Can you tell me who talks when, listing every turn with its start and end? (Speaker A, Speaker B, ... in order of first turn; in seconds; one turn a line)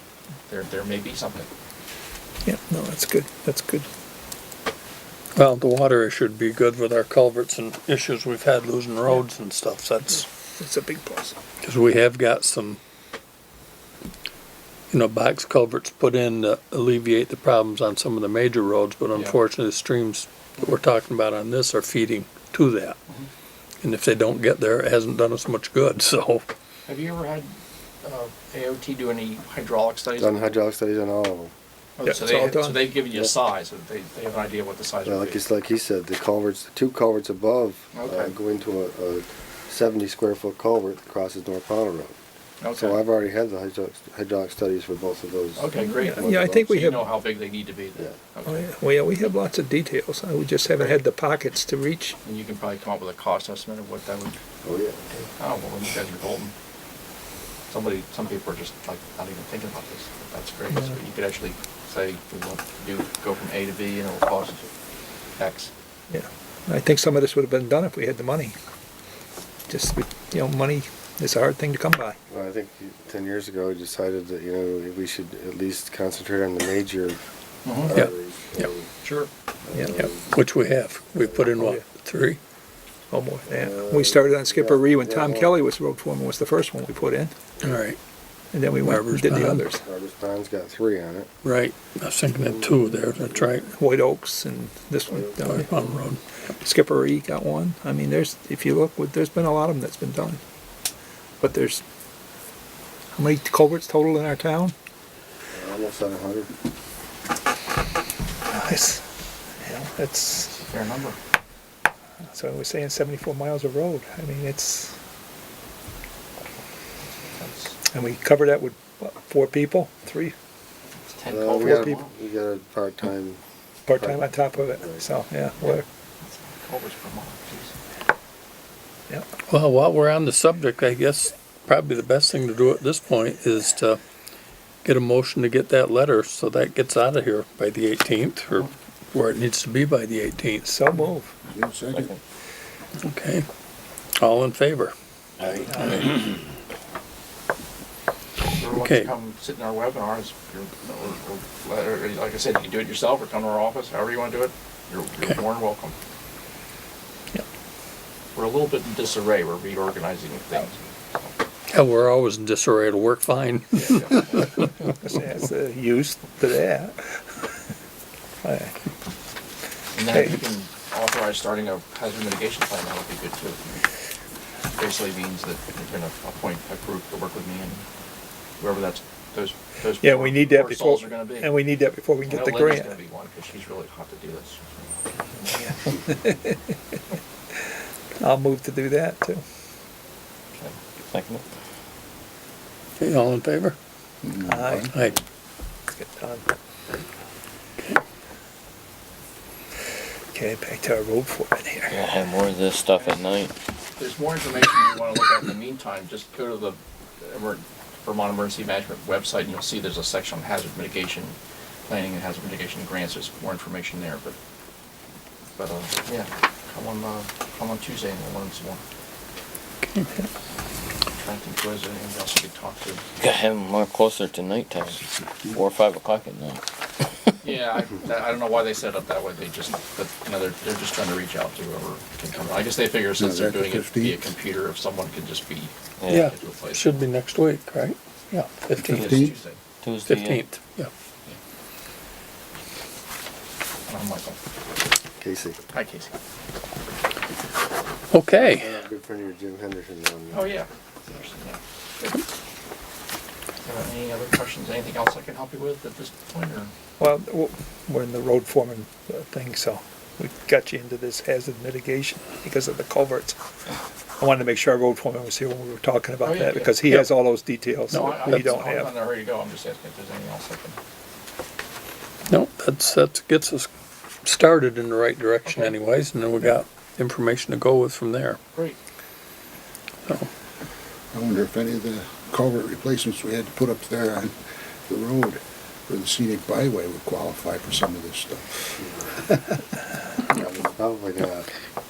Speaker A: 0.5-1.5
Speaker B: 2.4-3.9
Speaker C: 5.3-10.3
Speaker B: 10.6-11.3
Speaker C: 11.6-12.8
Speaker C: 14.9-23.0
Speaker C: 23.8-26.4
Speaker A: 26.9-30.4
Speaker D: 30.2-31.5
Speaker A: 32.0-35.4
Speaker B: 32.0-32.9
Speaker D: 35.0-42.1
Speaker A: 37.9-38.3
Speaker A: 42.6-43.0
Speaker D: 42.7-46.8
Speaker A: 45.5-48.7
Speaker B: 45.9-47.1
Speaker B: 48.5-52.2
Speaker A: 52.2-54.4
Speaker D: 54.6-55.1
Speaker A: 55.2-56.5
Speaker A: 57.7-64.7
Speaker A: 65.4-65.7
Speaker B: 66.1-68.5
Speaker B: 69.7-72.2
Speaker D: 72.3-77.2
Speaker A: 77.6-77.9
Speaker D: 77.8-78.9
Speaker C: 77.9-78.7
Speaker A: 79.0-79.3
Speaker D: 79.6-80.3
Speaker B: 79.7-80.0
Speaker C: 80.3-82.4
Speaker B: 81.6-81.8
Speaker B: 83.1-87.3
Speaker D: 83.5-85.6
Speaker C: 87.6-88.0
Speaker B: 88.5-89.8
Speaker C: 88.8-89.6
Speaker D: 89.8-91.3
Speaker C: 91.4-93.7
Speaker D: 92.5-93.1
Speaker B: 93.8-96.0
Speaker D: 95.1-95.7
Speaker C: 95.4-96.2
Speaker B: 96.6-100.4
Speaker B: 101.4-101.8
Speaker B: 103.2-104.7
Speaker D: 105.5-106.5
Speaker B: 108.5-109.0
Speaker B: 109.6-110.5
Speaker A: 110.4-111.2
Speaker B: 112.3-114.9
Speaker A: 117.0-117.8
Speaker B: 117.9-120.3
Speaker A: 121.1-122.0
Speaker D: 121.3-125.0
Speaker B: 121.6-121.9
Speaker B: 123.9-125.8
Speaker A: 125.6-127.8
Speaker C: 129.5-134.0
Speaker C: 134.8-140.8
Speaker B: 140.6-141.3
Speaker E: 141.5-142.1
Speaker C: 143.0-143.4
Speaker C: 144.2-144.9
Speaker F: 145.4-146.2
Speaker C: 145.8-146.1
Speaker A: 148.5-155.9
Speaker C: 148.7-149.1
Speaker A: 158.3-161.3
Speaker C: 161.7-164.7
Speaker A: 163.7-164.7
Speaker B: 164.8-167.0
Speaker B: 168.4-168.7
Speaker A: 169.9-173.7
Speaker A: 174.8-177.8
Speaker A: 178.6-181.6
Speaker B: 180.0-182.9
Speaker A: 182.2-185.6
Speaker B: 185.5-186.8
Speaker B: 188.2-189.4
Speaker F: 191.1-191.4
Speaker C: 193.0-193.8
Speaker E: 194.2-194.9
Speaker B: 194.4-194.9
Speaker C: 194.9-195.2
Speaker B: 195.9-196.4
Speaker B: 200.3-202.0
Speaker F: 201.9-203.5
Speaker A: 203.0-203.3
Speaker A: 204.0-211.4
Speaker A: 211.9-214.4
Speaker A: 215.6-218.8
Speaker C: 219.8-220.1
Speaker A: 221.2-223.0
Speaker F: 223.2-225.0
Speaker E: 224.9-225.7
Speaker F: 225.5-226.6
Speaker A: 227.4-237.0
Speaker E: 233.1-234.3
Speaker F: 236.0-236.3
Speaker C: 236.1-239.2
Speaker E: 238.8-239.3
Speaker F: 238.9-239.3
Speaker A: 239.0-239.6
Speaker F: 239.8-240.4
Speaker C: 240.0-240.9
Speaker A: 243.9-244.4
Speaker D: 245.2-245.6
Speaker A: 245.7-246.1
Speaker C: 248.1-248.7
Speaker D: 248.3-250.6
Speaker A: 250.3-251.6
Speaker A: 253.6-256.7
Speaker B: 257.0-263.4
Speaker B: 264.2-268.9
Speaker A: 266.2-267.0
Speaker A: 267.9-270.8
Speaker C: 267.9-268.4
Speaker C: 272.3-273.7
Speaker C: 274.2-278.4
Speaker E: 281.1-284.3
Speaker E: 284.9-289.3
Speaker D: 290.3-291.5